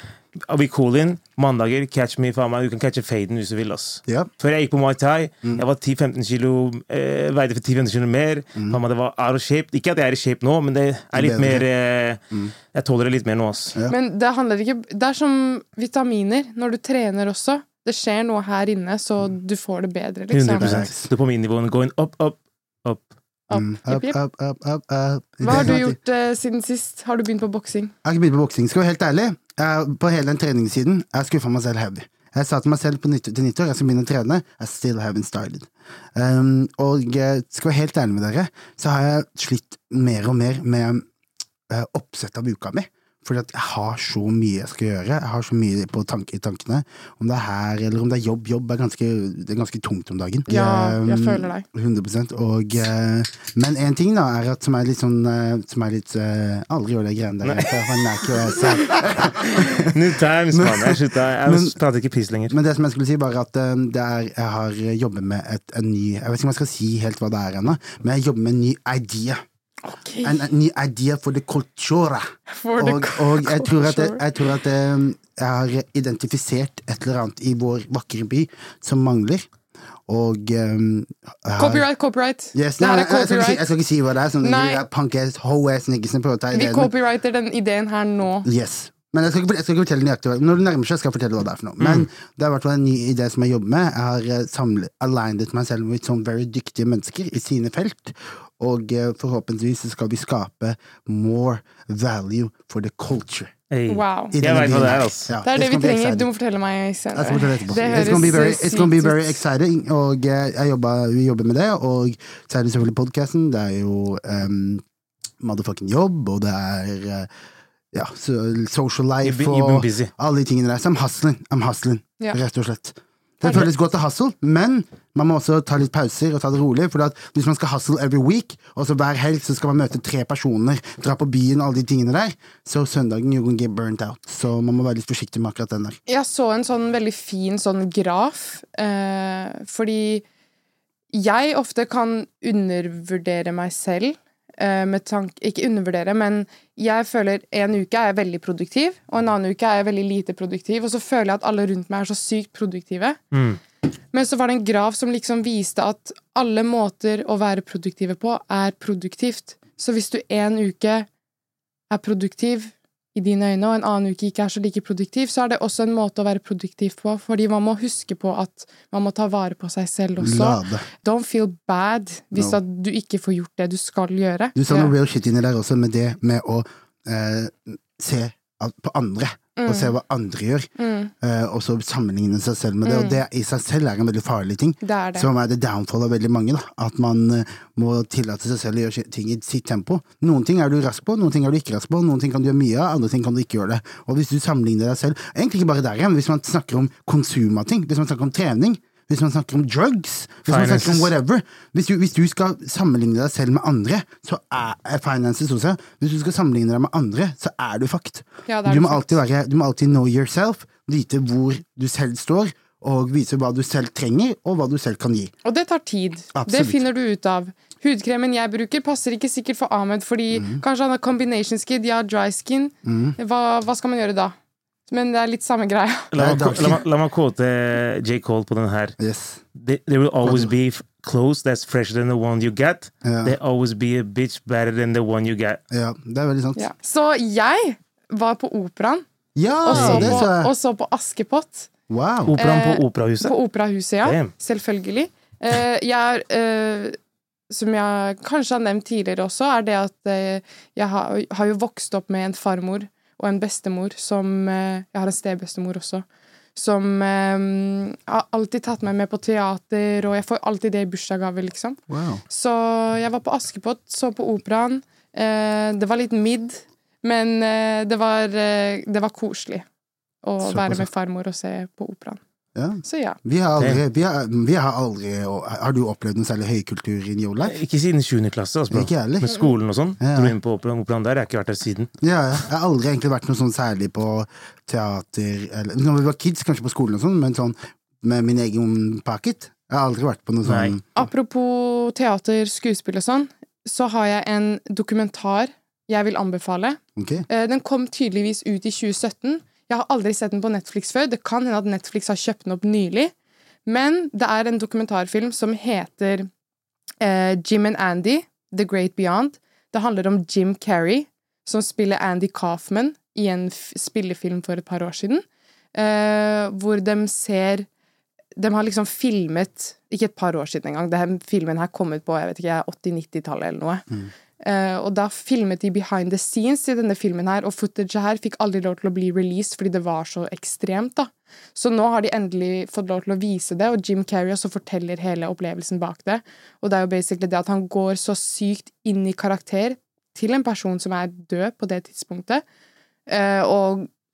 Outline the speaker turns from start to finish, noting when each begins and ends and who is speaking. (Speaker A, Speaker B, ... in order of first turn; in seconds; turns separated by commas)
Speaker A: 0.4-12.2, Speaker B: 11.1-11.6, Speaker A: 12.7-13.8, Speaker C: 13.9-20.7, Speaker A: 20.3-23.1, Speaker B: 20.6-21.1, Speaker C: 23.5-24.2, Speaker B: 23.5-26.0, Speaker C: 25.4-27.9, Speaker B: 28.0-41.0, Speaker B: 41.7-60.0, Speaker C: 50.5-51.6, Speaker A: 57.4-57.7, Speaker A: 58.4-62.5, Speaker B: 60.5-61.8, Speaker B: 62.5-69.4, Speaker C: 69.8-70.4, Speaker B: 70.2-79.5, Speaker C: 72.5-74.2, Speaker B: 80.1-81.8, Speaker C: 81.6-83.7, Speaker B: 82.5-86.9, Speaker C: 84.4-84.8, Speaker C: 86.5-88.5, Speaker B: 88.4-103.5, Speaker A: 91.8-92.1, Speaker A: 103.7-105.3, Speaker C: 103.9-104.3, Speaker B: 104.3-106.3, Speaker C: 105.4-109.4, Speaker B: 107.1-114.8, Speaker B: 115.4-117.3, Speaker B: 117.9-136.0, Speaker A: 119.2-120.1, Speaker C: 136.1-140.2, Speaker C: 141.1-153.2, Speaker A: 153.3-153.6, Speaker C: 154.1-161.1, Speaker C: 161.9-174.9, Speaker B: 170.2-170.8, Speaker B: 174.5-180.7, Speaker C: 179.6-179.9, Speaker C: 180.8-181.1, Speaker B: 181.2-215.3, Speaker C: 182.8-183.2, Speaker C: 184.8-185.3, Speaker A: 200.5-201.1, Speaker C: 208.5-209.2, Speaker C: 215.4-224.3, Speaker B: 216.3-216.8, Speaker B: 220.3-220.6, Speaker B: 222.8-223.2, Speaker C: 224.9-226.1, Speaker A: 226.1-228.9, Speaker B: 226.1-226.8, Speaker B: 229.0-229.4, Speaker A: 229.6-235.6, Speaker B: 230.2-230.5, Speaker B: 233.0-233.4, Speaker B: 235.7-236.6, Speaker C: 236.6-239.0, Speaker B: 239.3-240.5, Speaker C: 239.6-241.7, Speaker A: 239.7-240.2, Speaker B: 241.9-242.3, Speaker A: 242.2-243.3, Speaker C: 242.3-247.0, Speaker A: 244.0-244.3, Speaker C: 247.5-261.8, Speaker B: 261.9-262.2, Speaker C: 262.3-269.6, Speaker C: 270.2-272.2, Speaker B: 270.4-270.9, Speaker B: 272.5-277.6, Speaker C: 272.8-273.2, Speaker A: 277.4-281.9, Speaker B: 278.7-279.3, Speaker B: 280.0-280.4, Speaker B: 282.0-290.9, Speaker A: 290.4-290.8, Speaker C: 290.9-303.1, Speaker B: 296.9-297.2, Speaker C: 303.6-306.3, Speaker C: 307.0-315.2, Speaker C: 315.7-317.7, Speaker C: 318.4-323.9, Speaker C: 324.4-342.4, Speaker C: 343.1-343.9